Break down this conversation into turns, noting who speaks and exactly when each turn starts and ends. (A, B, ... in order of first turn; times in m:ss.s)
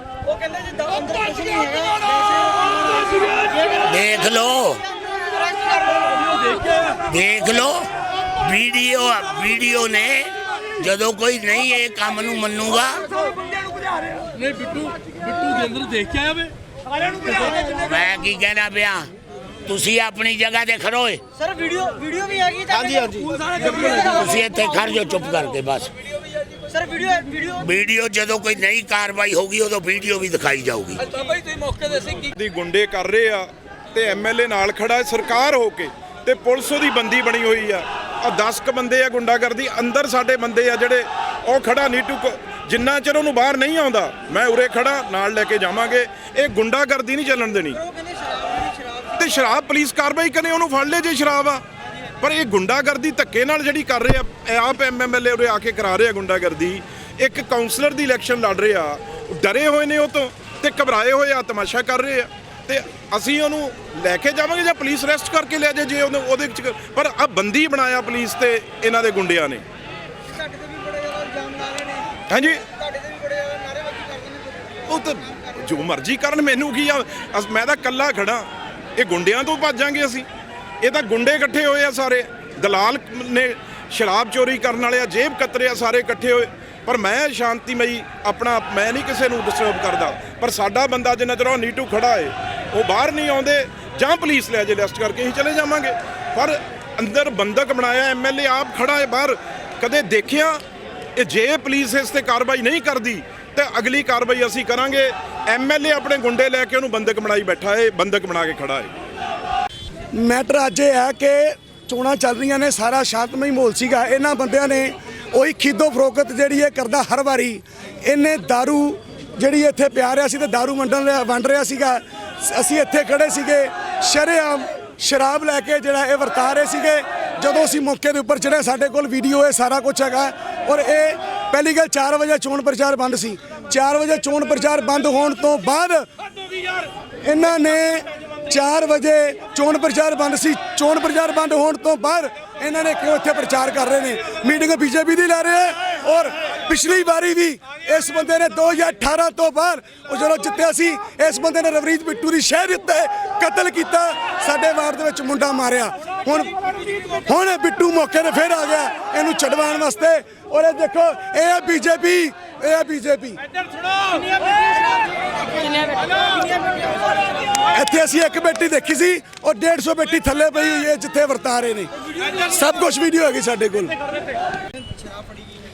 0:00.2-0:04.2 A
0:03.9-0:04.8 B
0:04.9-0:06.6 A
0:07.1-0:07.9 B
0:08.4-0:13.1 B
0:14.4-0:16.4 C
0:17.2-0:19.1 B
0:19.7-0:21.2 B
0:21.4-0:24.8 A
0:24.1-0:25.9 B
0:26.7-0:27.6 A
0:27.6-0:31.0 B
0:32.1-0:47.8 D
0:47.7-0:49.1 A
0:49.2-0:51.6 D
0:52.2-1:09.6 D
1:10.3-1:12.2 A
1:12.3-1:12.6 D
1:12.8-1:14.8 A
1:14.9-1:20.2 D
1:20.8-1:40.6 D
1:41.2-1:48.9 D
1:50.1-2:16.0 E
2:17.2-2:43.4 E
2:44.3-2:47.6 A
2:47.7-2:51.9 E
2:52.5-2:53.9 E